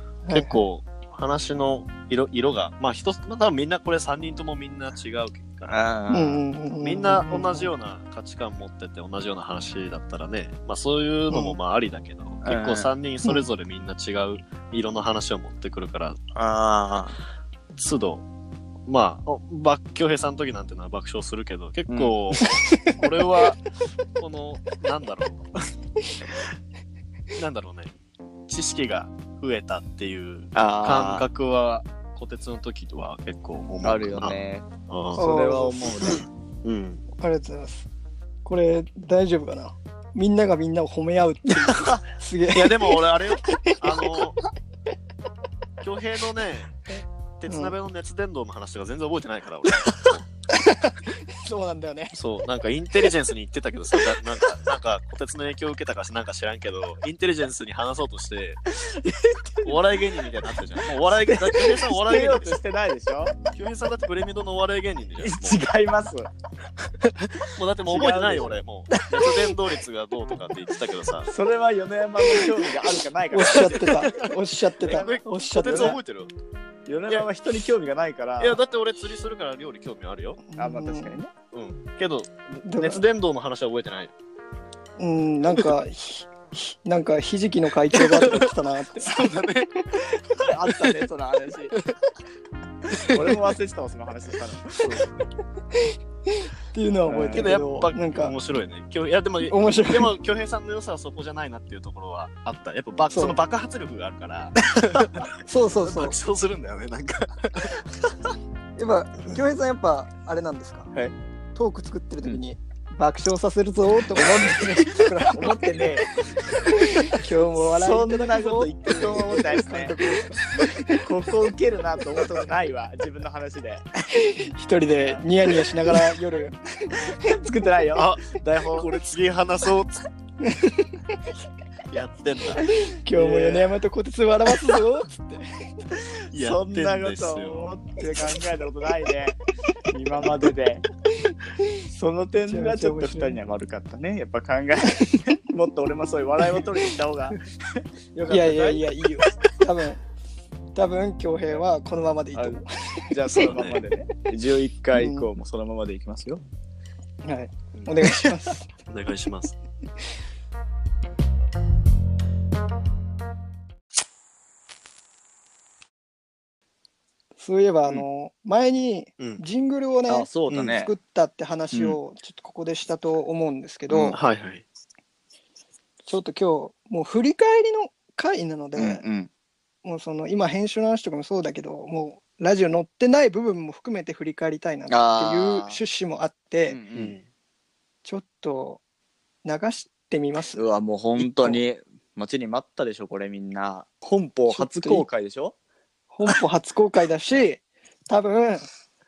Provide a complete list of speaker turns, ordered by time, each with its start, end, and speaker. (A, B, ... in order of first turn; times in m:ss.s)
0:00.2-0:00.6 A
0:00.3-0:05.8 B
0:05.7-0:06.4 C
0:06.1-0:07.7 A
0:06.8-0:16.2 B
0:11.3-0:11.6 A
0:12.4-0:12.9 C
0:16.3-0:17.2 C
0:17.8-0:18.2 B
0:18.9-0:23.6 B
0:21.9-0:22.1 C
0:22.6-0:22.9 A
0:24.2-0:25.5 B
0:27.3-0:27.9 B
0:28.5-0:35.2 B
0:30.5-0:31.3 C
0:33.8-0:36.2 C
0:35.2-0:36.1 A
0:36.0-0:37.0 B
0:37.2-0:37.9 A
0:38.4-0:44.1 A
0:42.5-0:44.4 B
0:45.8-0:46.8 B
0:47.4-0:50.2 B
0:47.5-0:47.7 A
0:50.5-0:52.1 A
0:52.1-0:58.6 B
0:58.8-0:59.8 C
0:59.6-1:02.6 B
1:00.9-1:03.3 C
1:03.5-1:05.6 B
1:05.2-1:06.3 C
1:07.4-1:11.3 B
1:07.8-1:09.6 C
1:11.2-1:14.0 C
1:13.3-1:16.0 A
1:13.4-1:16.3 B
1:14.9-1:16.0 C
1:16.8-1:18.6 C
1:18.4-1:20.4 B
1:20.5-1:21.3 A
1:20.6-1:21.2 C
1:21.5-1:24.1 B
1:22.6-1:23.0 A
1:25.0-1:29.1 A
1:28.0-1:30.5 B
1:30.4-1:31.7 C
1:33.0-1:35.0 C
1:34.8-1:35.1 B
1:35.7-1:38.4 A
1:37.0-1:37.6 C
1:37.3-1:47.8 B
1:39.4-1:40.1 A
1:43.1-1:43.4 A
1:45.4-1:46.2 A
1:48.8-1:50.9 A
1:51.5-1:56.0 A
1:54.1-1:56.1 C
1:56.6-2:01.0 A
1:57.6-2:00.1 C
2:00.9-2:03.9 C
2:04.1-2:07.3 A
2:05.0-2:06.0 C
2:07.0-2:08.9 C
2:07.9-2:10.0 B
2:10.4-2:11.2 A
2:11.9-2:12.6 B
2:12.8-2:15.6 A
2:13.1-2:13.7 C
2:16.3-2:20.8 C
2:16.3-2:17.8 B
2:21.3-2:21.8 A
2:21.9-2:29.3 C
2:22.5-2:23.4 A
2:28.3-2:30.0 A
2:30.7-2:33.5 A
2:32.3-2:36.4 C
2:33.4-2:33.8 B
2:34.9-2:35.3 A
2:37.2-2:38.7 A
2:38.9-2:39.5 B
2:47.4-2:54.2 A
2:50.1-2:50.9 C
2:50.5-2:50.8 B
2:51.7-2:52.0 C
2:53.9-2:54.2 C
2:54.1-2:54.6 B
2:56.0-2:59.0 A
2:58.8-2:59.3 C
2:59.8-3:06.8 A
3:04.9-3:05.8 C
3:06.7-3:07.2 C
3:06.9-3:07.2 B
3:08.0-3:08.8 A
3:09.4-3:10.6 A
3:10.5-3:15.5 C
3:11.2-3:11.6 A
3:14.5-3:15.0 A
3:16.1-3:18.7 A